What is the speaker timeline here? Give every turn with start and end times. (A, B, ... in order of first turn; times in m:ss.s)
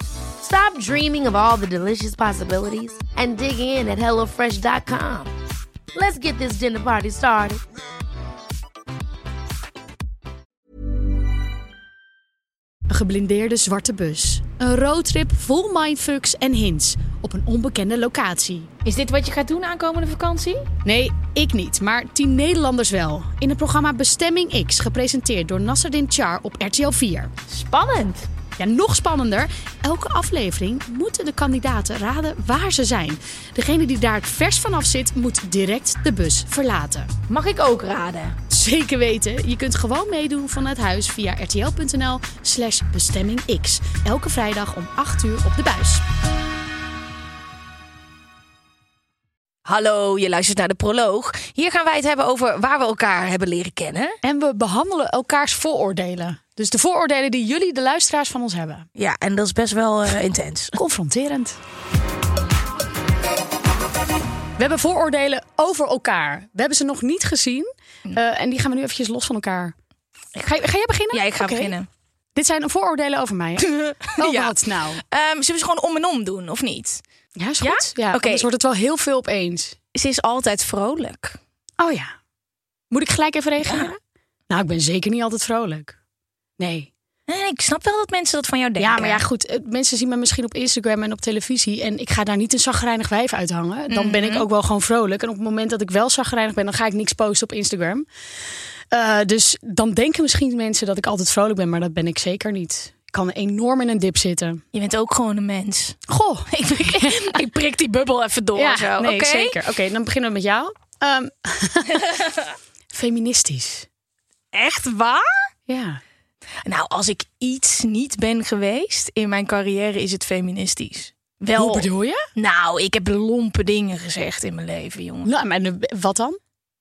0:00.4-0:05.3 A
0:05.9-0:07.6 A
0:12.9-0:18.7 B
0:18.8-0:20.6 C
0:20.8-0:27.3 B
0:27.5-0:28.3 C
0:28.6-0:37.1 B
0:37.3-0:38.3 C
0:38.5-0:46.0 B
0:49.6-0:54.2 C
0:54.2-0:58.9 B
0:59.0-1:00.8 C
1:00.8-1:01.6 B
1:04.6-1:09.7 B
1:10.4-1:11.8 B
1:11.1-1:11.9 C
1:12.4-1:15.0 B
1:13.6-1:17.0 C
1:17.4-1:19.8 B
1:17.6-1:18.5 C
1:19.9-1:21.4 C
1:21.8-1:22.1 B
1:22.9-1:24.0 B
1:23.6-1:23.9 C
1:24.5-1:25.9 B
1:26.6-1:26.9 B
1:27.3-1:29.2 C
1:28.8-1:38.0 B
1:33.9-1:34.5 C
1:38.9-1:44.6 B
1:44.7-1:46.0 C
1:46.1-1:47.4 B
1:46.5-1:49.6 C
1:48.6-1:52.1 B
1:52.0-1:52.5 C
1:52.9-1:53.9 B
1:54.5-1:55.3 C
1:55.7-1:56.0 B
1:56.6-2:05.3 C
2:01.6-2:02.2 B
2:05.2-2:06.4 B